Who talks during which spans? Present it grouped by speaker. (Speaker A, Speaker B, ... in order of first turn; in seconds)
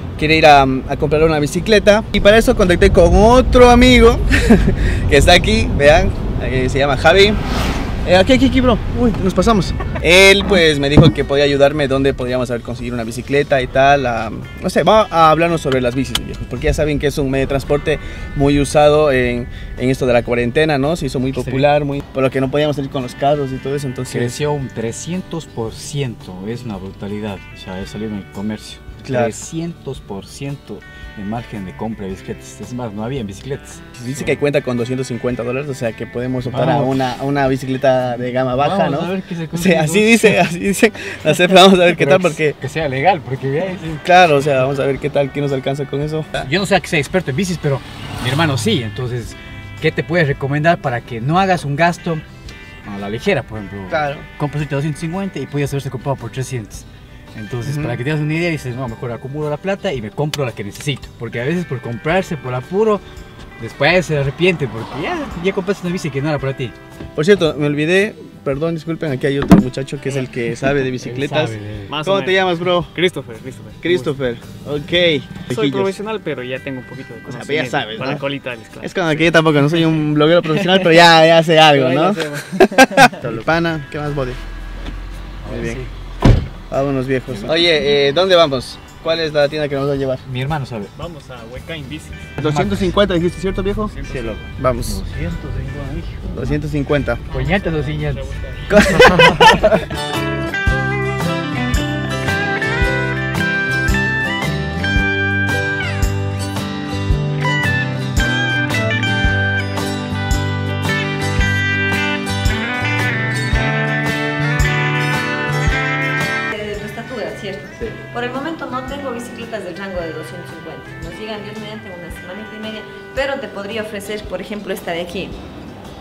Speaker A: 0.2-7.4, 8.0-24.4, 29.0-29.4, 34.0-42.6, 43.8-46.5, 53.9-54.3, 57.6-58.0, 67.2-72.9, 73.8-76.0, 77.3-78.2, 78.8-84.4, 85.5-85.8, 86.7-90.2, 92.4-94.0, 94.6-95.0, 96.3-97.2, 98.7-99.8
Speaker B: 21.4-21.7, 24.1-34.4, 36.5-37.0, 38.4-40.4, 41.5-44.0, 46.4-52.2, 52.9-63.0, 63.6-66.8, 71.0-71.9, 85.4-85.9, 87.3-87.7, 90.2-90.9, 92.4-92.9, 94.0-96.6, 97.3-99.8
Speaker C: 71.9-74.1, 75.5-79.9, 80.6-80.9, 81.8-83.4, 91.0-92.4, 93.9-94.5, 97.3-99.8
Speaker D: 116.5-125.4